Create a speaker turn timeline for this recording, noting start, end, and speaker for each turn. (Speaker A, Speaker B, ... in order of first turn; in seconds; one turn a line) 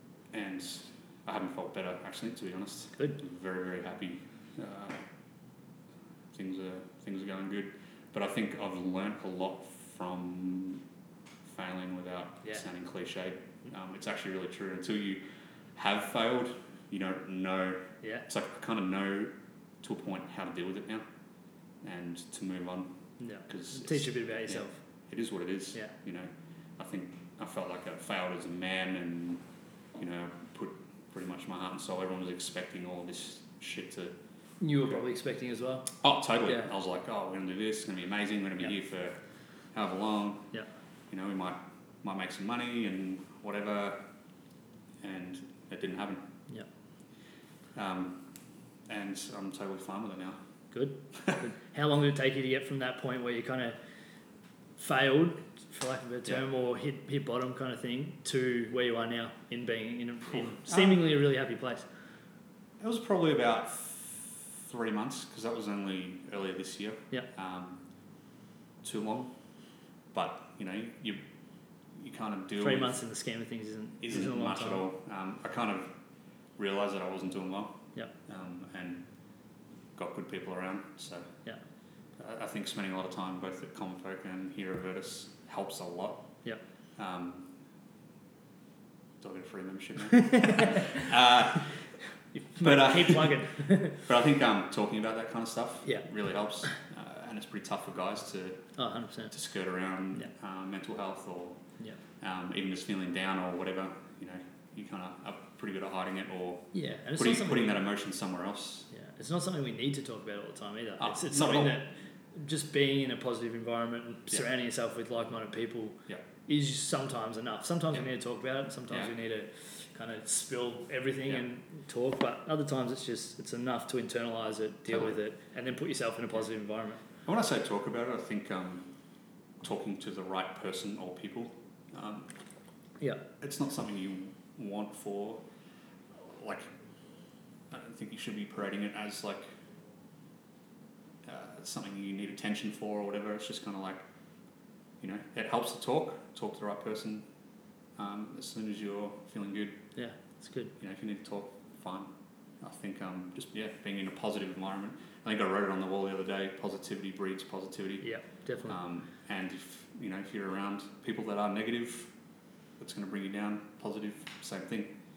Speaker A: 0.3-5.0
Speaker A: 6.3-10.8
Speaker A: 11.4-15.2
Speaker A: 15.7-21.0
Speaker A: 21.8-22.9
Speaker B: 23.2-24.8
Speaker A: 23.5-29.4
Speaker A: 29.9-34.1
Speaker B: 34.6-35.9
Speaker A: 36.0-39.2
Speaker A: 39.7-40.5
Speaker A: 41.1-44.0
Speaker A: 45.0-46.2
Speaker A: 47.7-48.2
Speaker A: 48.9-50.4
Speaker B: 50.7-53.8
Speaker B: 54.8-61.8
Speaker A: 60.4-61.0
Speaker A: 62.8-67.8
Speaker A: 68.8-69.3
Speaker A: 70.1-71.2
Speaker A: 72.0-73.0
Speaker B: 72.6-74.9
Speaker A: 74.0-75.9
Speaker A: 76.6-77.8
Speaker A: 78.3-79.0
Speaker A: 80.0-81.3
Speaker A: 82.2-86.2
Speaker A: 87.0-87.5
Speaker A: 89.2-91.7
Speaker B: 90.1-91.1
Speaker B: 92.3-94.0
Speaker A: 92.6-98.6
Speaker B: 98.8-99.3
Speaker A: 99.3-101.6
Speaker A: 102.2-108.9
Speaker B: 106.7-107.8
Speaker B: 108.9-127.0
Speaker A: 111.0-111.8
Speaker A: 127.2-128.9
Speaker A: 129.6-132.3
Speaker A: 133.4-135.4
Speaker A: 136.1-136.7
Speaker A: 137.7-139.5
Speaker A: 141.2-144.0
Speaker A: 145.0-147.2
Speaker A: 148.0-149.8
Speaker B: 149.9-150.7
Speaker A: 150.8-152.1
Speaker A: 152.6-158.0
Speaker B: 158.0-158.8
Speaker A: 158.6-162.1
Speaker A: 162.8-164.9